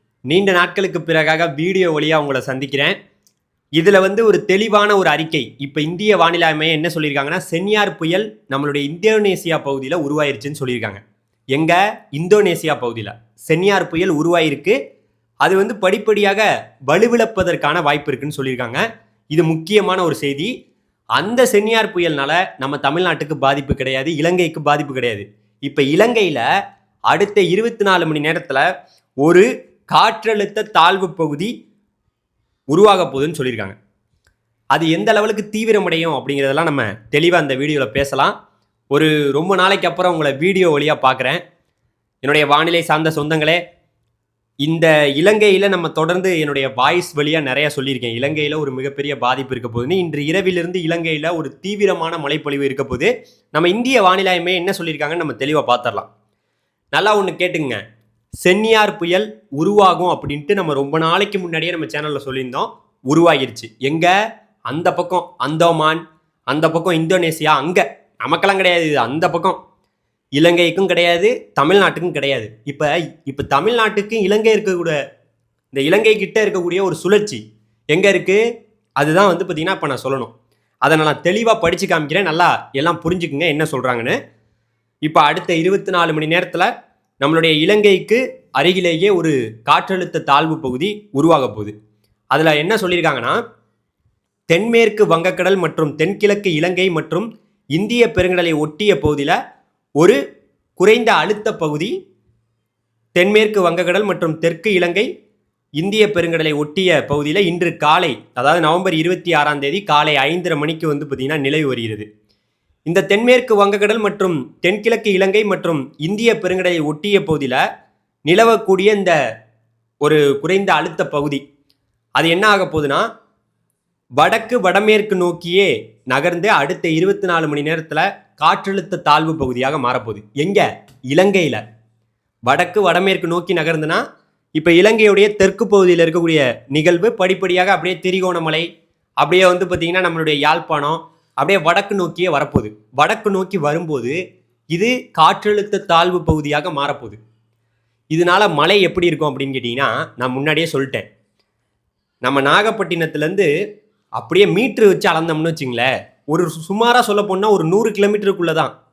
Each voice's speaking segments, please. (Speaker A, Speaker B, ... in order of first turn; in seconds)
Speaker A: 0.3-3.0, 3.8-11.0, 11.5-14.8, 15.4-18.8, 19.3-20.5, 21.2-26.4, 27.1-28.6, 29.2-31.5, 32.7-33.8, 34.7-38.3, 38.9-41.4, 42.2-43.6, 44.6-56.1, 56.9-57.8, 58.4-64.1, 64.7-69.6, 70.4-75.0, 75.7-78.4, 79.0-80.3, 80.8-84.2, 85.0-86.7, 87.2-91.7, 92.3-93.4, 94.5-99.3, 100.8-101.9, 103.2-105.1, 105.8-112.1, 112.9-117.6, 118.3-119.2, 120.0-121.4, 122.2-123.0, 124.2-131.6, 132.5-134.0, 134.6-138.7, 139.2-144.2, 144.7-147.2, 148.1-151.0, 152.2-153.5, 154.2-158.7